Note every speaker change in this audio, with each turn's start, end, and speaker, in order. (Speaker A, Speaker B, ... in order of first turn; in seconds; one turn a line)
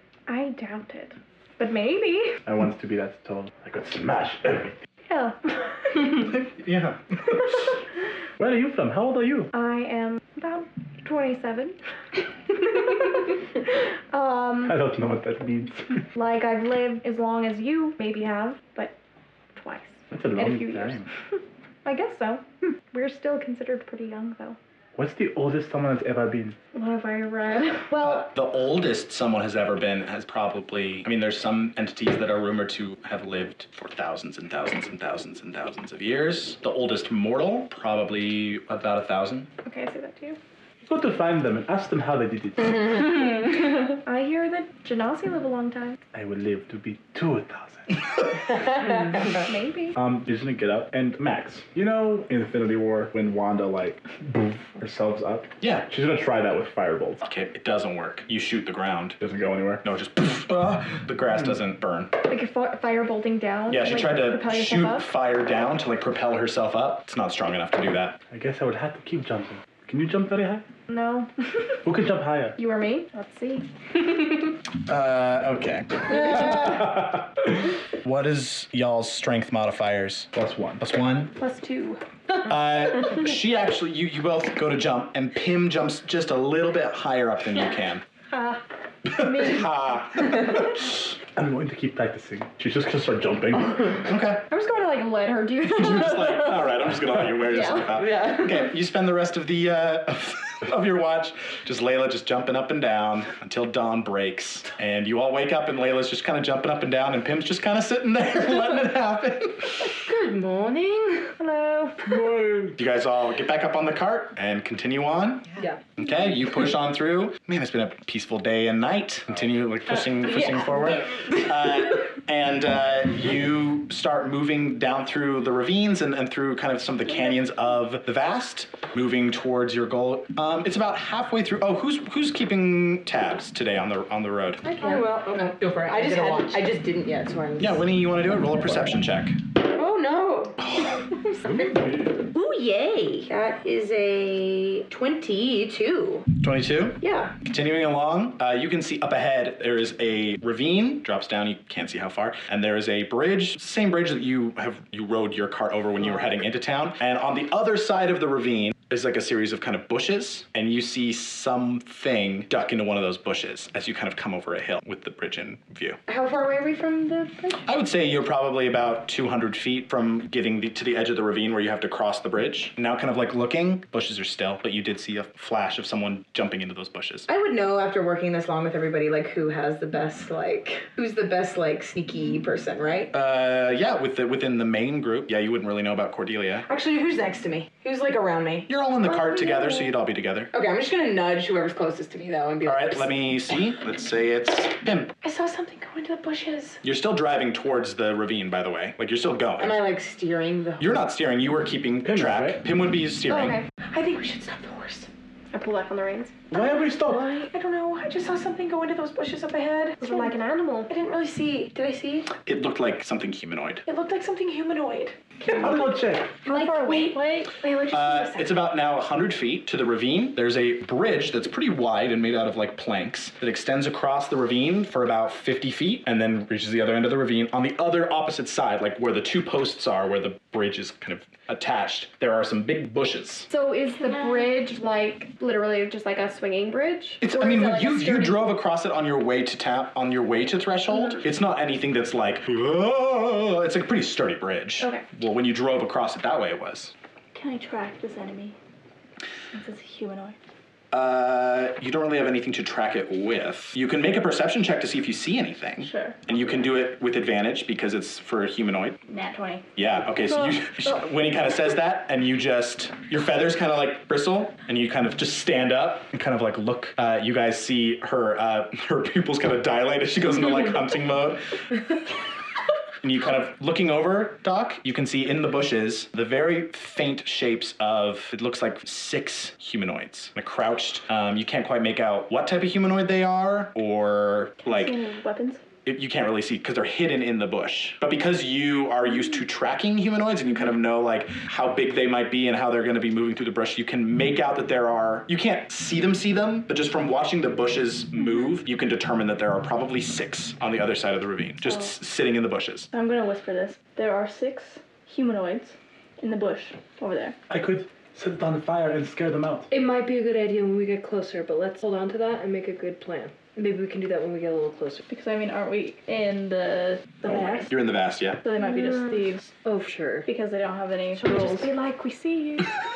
Speaker A: 0.3-2.4
Speaker B: 2.5-4.8
Speaker A: 5.1-5.5
Speaker C: 6.3-7.0
Speaker B: 8.4-9.5
Speaker A: 9.5-11.8
Speaker A: 14.1-14.8
Speaker B: 14.6-16.0
Speaker A: 16.1-18.9
Speaker A: 19.6-21.1
Speaker B: 20.1-21.1
Speaker A: 21.8-24.6
Speaker B: 25.0-26.6
Speaker A: 26.7-28.3
Speaker C: 28.0-39.5
Speaker A: 39.6-40.4
Speaker B: 40.8-42.9
Speaker A: 43.5-46.0
Speaker B: 46.1-48.1
Speaker A: 49.4-50.0
Speaker B: 49.9-57.2
Speaker C: 55.6-55.9
Speaker C: 57.2-59.2
Speaker B: 59.2-59.9
Speaker C: 59.8-62.1
Speaker A: 62.3-65.1
Speaker C: 63.7-68.2
Speaker B: 68.3-70.7
Speaker A: 70.9-71.8
Speaker B: 71.8-72.6
Speaker A: 72.6-73.7
Speaker C: 74.9-77.1
Speaker C: 78.0-81.3
Speaker B: 80.3-80.8
Speaker A: 81.4-82.0
Speaker C: 82.4-88.0
Speaker A: 88.3-89.7
Speaker C: 89.1-91.0
Speaker B: 91.4-94.1
Speaker C: 94.1-94.4
Speaker A: 94.5-96.5
Speaker C: 95.7-109.9
Speaker A: 97.5-97.8
Speaker D: 97.9-98.7
Speaker D: 110.0-111.3
Speaker A: 111.4-112.0
Speaker B: 112.0-112.8
Speaker C: 112.8-134.7
Speaker D: 134.7-137.8
Speaker E: 135.8-137.7
Speaker C: 137.6-139.4
Speaker E: 139.8-141.7
Speaker C: 140.6-140.9
Speaker B: 141.4-142.3
Speaker E: 142.3-146.3
Speaker C: 146.4-166.0
Speaker E: 147.0-147.3
Speaker E: 166.1-167.6
Speaker C: 167.7-177.3
Speaker E: 177.3-183.1
Speaker C: 183.1-186.7
Speaker E: 186.7-189.8
Speaker C: 188.7-190.5
Speaker E: 190.5-193.1
Speaker C: 192.6-195.1
Speaker E: 195.2-196.8
Speaker C: 196.8-199.9
Speaker E: 199.6-200.8
Speaker C: 200.8-203.6
Speaker B: 202.0-202.7
Speaker A: 203.3-203.6
Speaker E: 203.7-205.1
Speaker A: 205.5-206.3
Speaker B: 206.5-207.3
Speaker E: 206.6-210.3
Speaker A: 210.0-210.9
Speaker E: 210.9-212.3
Speaker C: 212.4-213.8
Speaker E: 213.9-215.9
Speaker B: 215.6-216.3
Speaker A: 216.5-217.1
Speaker E: 216.5-218.4
Speaker F: 216.5-217.5
Speaker C: 217.9-233.5
Speaker A: 233.5-238.4
Speaker C: 237.2-246.9
Speaker A: 244.8-245.1
Speaker F: 247.3-248.6
Speaker F: 249.5-250.4
Speaker C: 250.9-259.0
Speaker F: 255.8-256.2
Speaker F: 259.1-259.7
Speaker C: 259.8-271.6
Speaker C: 273.0-285.0
Speaker F: 284.6-285.6
Speaker C: 285.9-302.9
Speaker F: 301.6-301.9
Speaker F: 302.9-307.4
Speaker B: 307.5-309.7
Speaker G: 309.7-315.0
Speaker F: 315.1-317.8
Speaker C: 317.3-318.4
Speaker F: 318.4-319.5
Speaker A: 318.7-319.1
Speaker G: 319.6-320.3
Speaker F: 320.2-321.7
Speaker A: 321.2-322.7